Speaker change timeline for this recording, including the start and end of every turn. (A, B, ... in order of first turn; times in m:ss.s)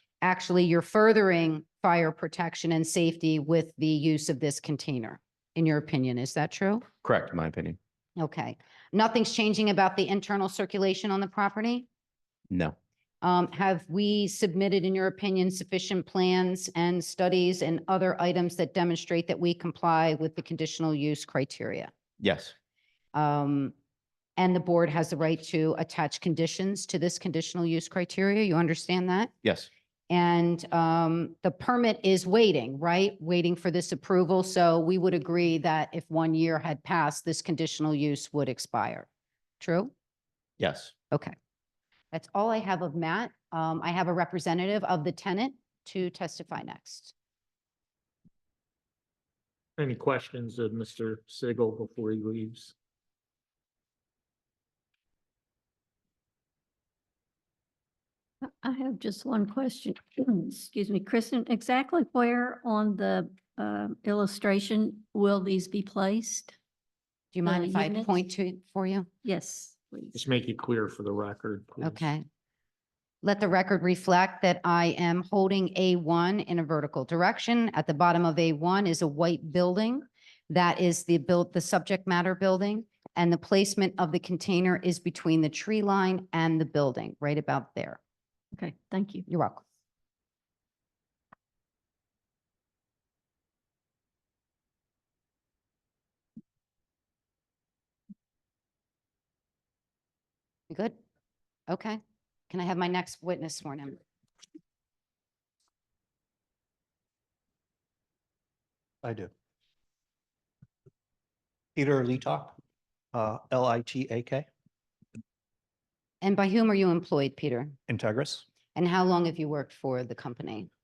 0:00.2-0:06.8 A
0:07.0-0:07.8 B
0:08.2-0:11.9 A
0:12.5-0:12.8 B
0:13.2-0:21.9 A
0:22.2-0:22.5 B
0:23.1-0:23.7 A
0:24.4-0:29.3 A
0:29.4-0:29.7 B
0:30.1-0:39.1 A
0:39.6-0:39.9 A
0:40.6-0:40.9 B
0:42.1-0:47.1 A
0:49.8-0:52.7 C
0:58.4-1:06.5 D
1:07.3-1:09.1 A
1:07.4-1:08.1 D
1:09.2-1:10.1 D
1:10.1-1:12.0 C
1:11.8-1:12.2 A
1:13.2-1:28.0 A
1:28.5-1:29.2 D
1:29.3-1:29.6 A
1:40.7-1:41.0 A
1:41.7-1:44.0 A
1:49.0-1:49.3 E
1:51.8-1:52.6 E
1:53.1-1:54.5 E
1:56.2-1:57.8 A
1:57.9-1:58.4 E
1:58.7-2:00.7 A